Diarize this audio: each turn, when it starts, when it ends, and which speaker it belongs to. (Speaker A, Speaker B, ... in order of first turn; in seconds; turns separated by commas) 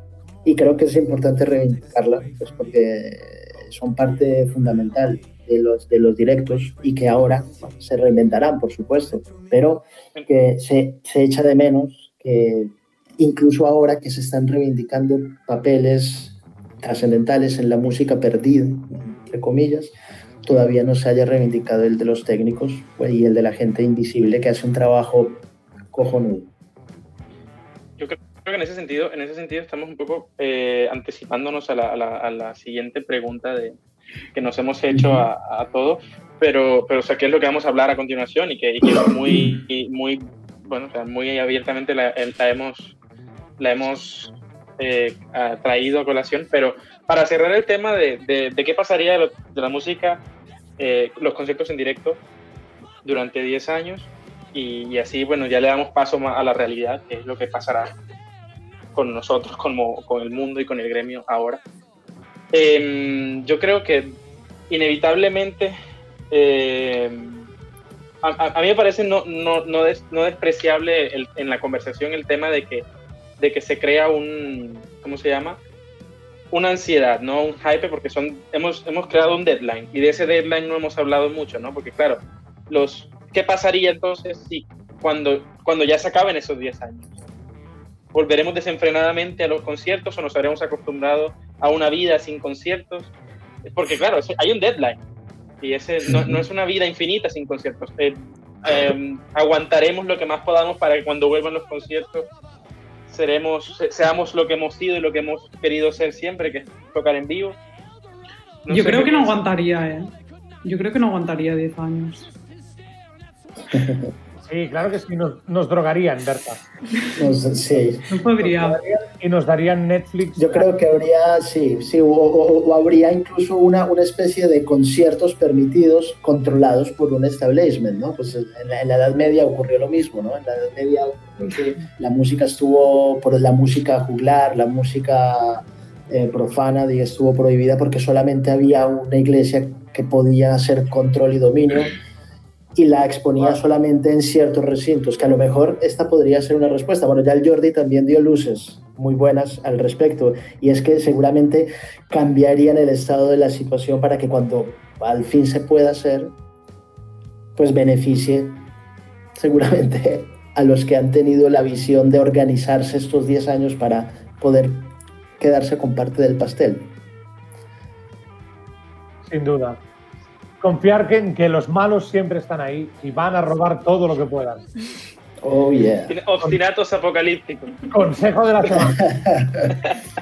Speaker A: 0.4-26.5, Speaker B: 28.0-33.8, Speaker B: 34.3-42.9, Speaker A: 34.9-35.2, Speaker B: 43.6-50.2, Speaker B: 50.8-52.2, Speaker B: 53.0-57.9, Speaker B: 58.9-61.6, Speaker B: 62.5-64.2, Speaker B: 64.7-65.7, Speaker B: 66.3-67.4, Speaker B: 68.2-72.8, Speaker B: 73.4-75.6, Speaker B: 76.5-87.1, Speaker B: 88.1-93.1, Speaker B: 93.7-95.0, Speaker B: 95.6-102.3, Speaker A: 96.1-96.4, Speaker B: 103.1-107.6, Speaker B: 108.6-109.4, Speaker C: 108.7-110.1, Speaker C: 110.6-112.3, Speaker A: 113.7-114.1, Speaker D: 114.4-116.6, Speaker A: 117.1-118.0, Speaker C: 118.1-118.8, Speaker D: 118.4-120.7, Speaker A: 120.4-141.9, Speaker A: 142.8-156.3, Speaker A: 157.6-158.7, Speaker A: 159.3-166.9, Speaker D: 169.2-169.8, Speaker D: 170.6-174.7, Speaker A: 175.4-176.2, Speaker B: 176.1-177.8, Speaker D: 177.9-179.1, Speaker A: 178.8-179.7